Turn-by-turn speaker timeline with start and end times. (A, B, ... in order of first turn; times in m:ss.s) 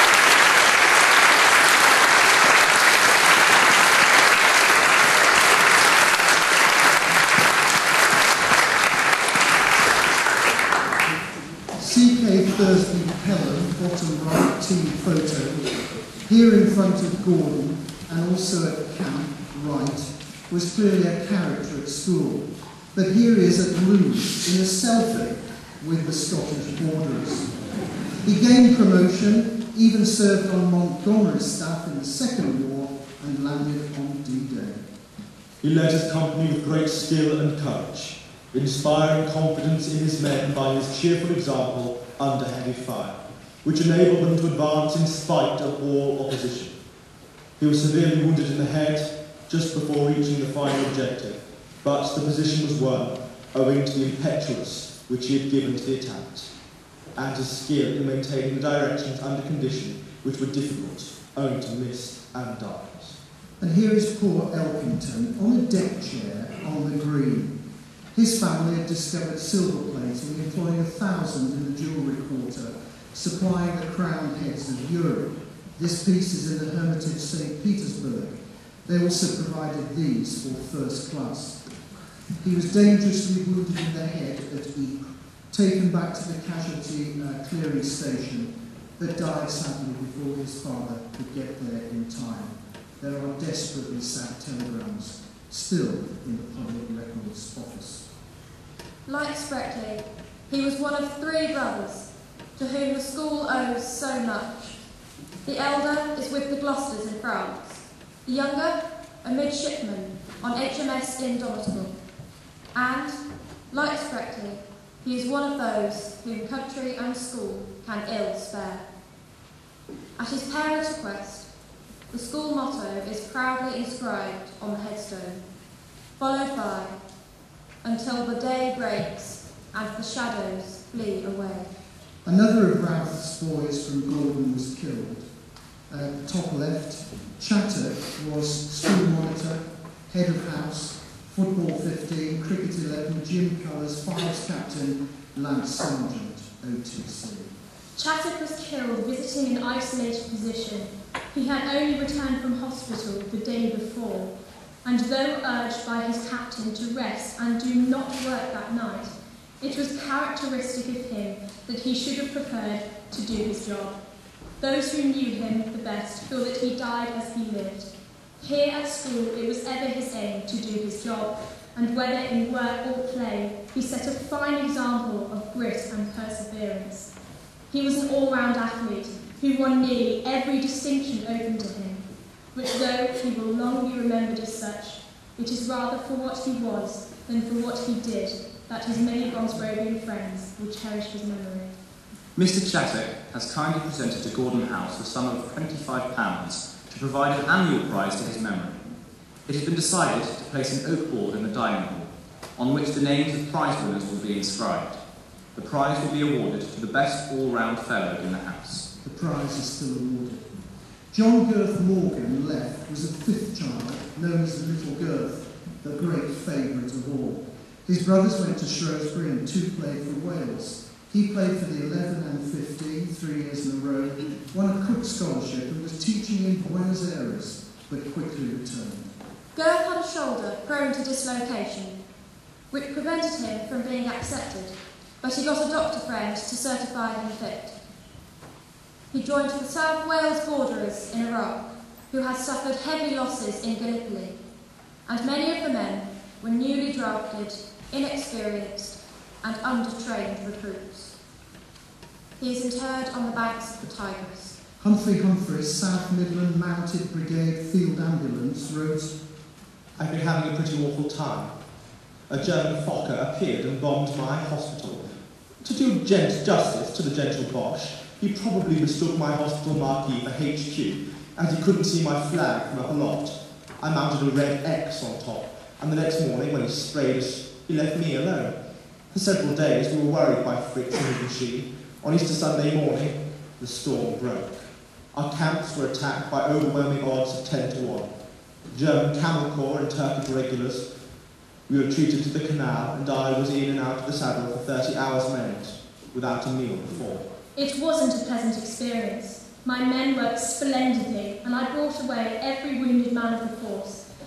0:11.7-0:27.5 A
0:28.2-0:34.8 A
0:35.6-0:46.7 B
0:47.6-0:56.5 B
0:57.2-1:03.2 B
1:03.6-1:07.5 A
1:08.1-1:21.6 A
1:22.4-1:38.0 A
1:39.0-1:44.7 C
1:45.4-1:51.9 C
1:52.7-1:53.2 C
1:53.7-1:58.8 C
2:00.2-2:01.5 C
2:02.1-2:05.4 C
2:06.2-2:07.0 C
2:07.8-2:11.7 C
2:12.2-2:15.3 A
2:15.9-2:27.5 A
2:28.0-2:44.0 D
2:44.6-2:57.1 D
2:57.7-3:11.7 D
3:12.4-3:18.8 E
3:19.5-3:25.0 E
3:25.5-3:28.8 E
3:29.0-3:30.5 A
3:31.1-3:49.1 A
3:49.5-3:52.0 C
3:52.7-3:57.7 C
3:59.1-4:04.4 C
4:05.0-4:11.1 C
4:12.4-4:14.5 C
4:14.8-4:19.2 A
4:20.0-4:21.5 B
4:22.3-4:25.0 B
4:25.6-4:38.6 B
4:39.1-4:48.1 B
4:48.7-4:50.9 B
4:51.7-4:57.2 B
4:57.6-5:04.0 D